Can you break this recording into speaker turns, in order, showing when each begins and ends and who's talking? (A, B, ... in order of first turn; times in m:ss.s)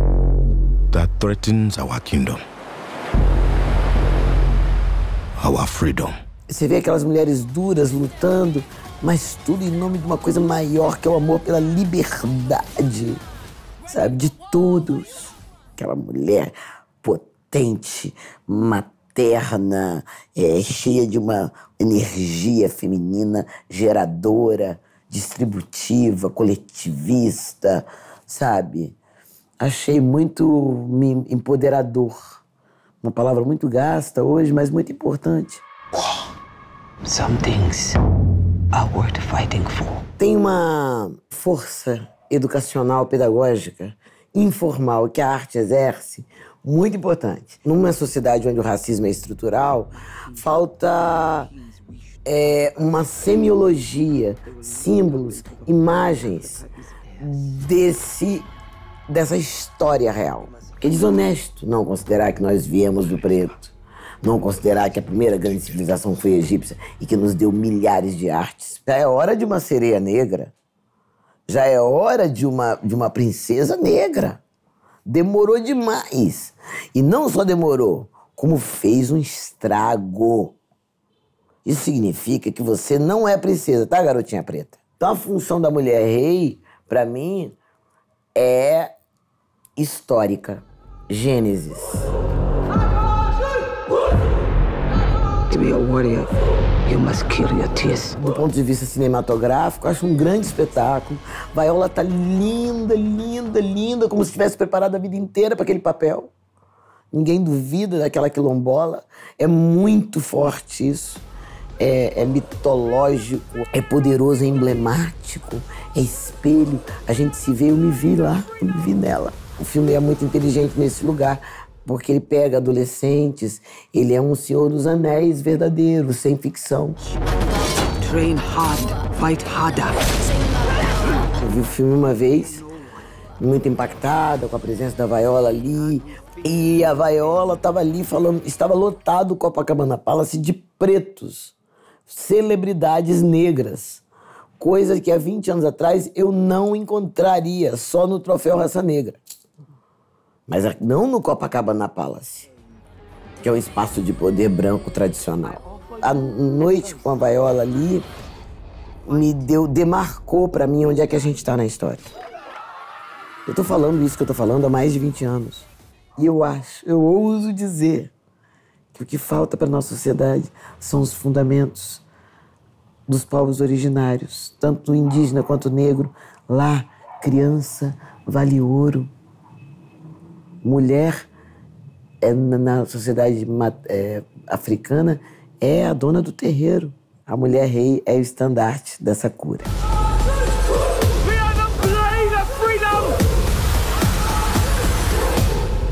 0:00.9-0:02.4 A
0:05.4-0:06.2 A
0:06.5-0:13.2 B
0:13.9-0:29.0 B
0:29.6-0:32.4 B
0:33.0-0:35.6 B
0:37.0-0:38.0 C
0:38.7-0:40.0 C
0:40.2-0:51.5 B
0:52.2-0:58.5 B
0:59.1-1:10.5 B
1:11.5-1:14.4 B
1:15.0-1:20.6 B
1:21.6-1:27.6 B
1:28.3-1:28.9 B
1:29.8-1:32.1 B
1:35.5-1:38.2 C
1:38.2-1:46.3 B
1:47.1-1:51.2 B
1:51.8-2:07.0 B
2:08.0-2:10.0 C
2:11.3-2:12.6 B
2:13.4-2:21.5 B
2:22.1-2:24.0 B
2:24.6-2:29.2 B
2:30.5-2:32.5 B
2:33.4-2:38.1 B
2:39.0-2:42.1 B
2:43.4-2:48.1 B
2:48.9-2:52.0 B
2:53.1-2:59.1 B
3:00.6-3:01.3 B
3:02.2-3:09.7 B
3:11.2-3:13.2 C